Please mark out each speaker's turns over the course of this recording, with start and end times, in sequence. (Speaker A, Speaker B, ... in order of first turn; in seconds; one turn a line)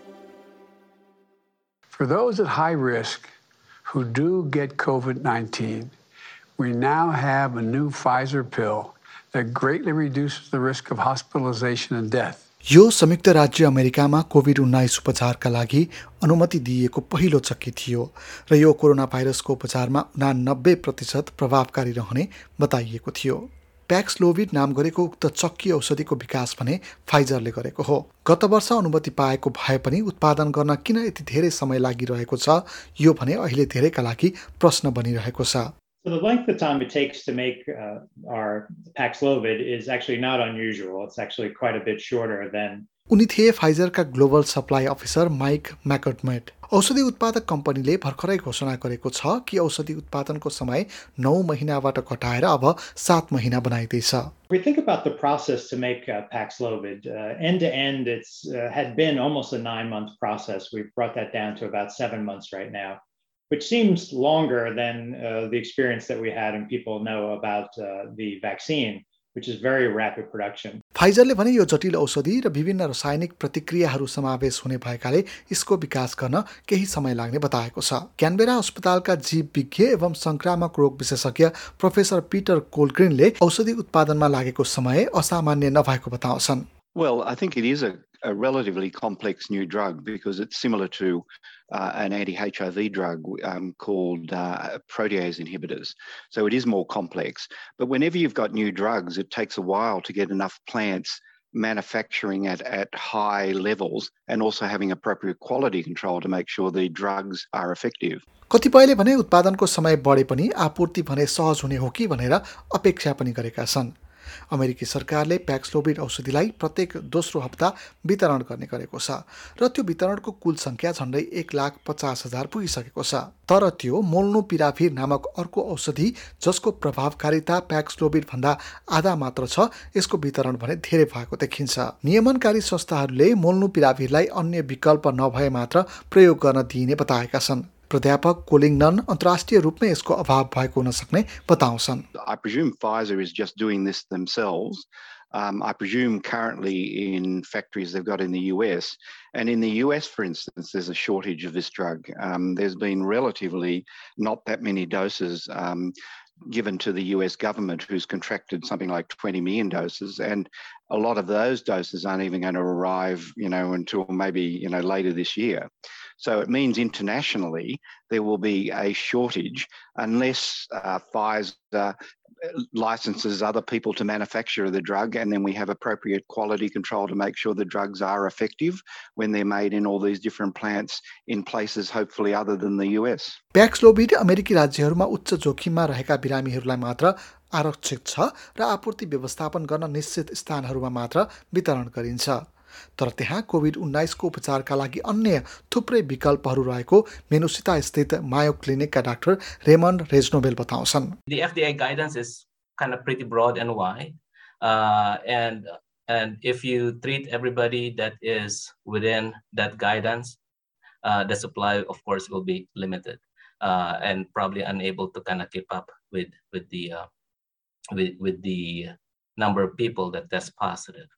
Speaker A: 1.9-3.3
Speaker A: 3.9-5.9
Speaker A: 6.6-12.4
Speaker B: 12.7-35.7
Speaker C: 36.0-42.9
Speaker B: 43.1-54.3
Speaker C: 54.5-70.8
Speaker B: 71.0-86.7
Speaker D: 86.9-108.2
Speaker B: 108.5-113.9
Speaker B: 114.5-142.1
Speaker D: 142.2-155.9
Speaker D: 156.5-165.7
Speaker D: 166.2-183.4
Speaker B: 183.6-192.4
Speaker B: 193.0-201.1
Speaker E: 201.3-210.4
Speaker E: 211.0-217.1
Speaker E: 217.9-221.1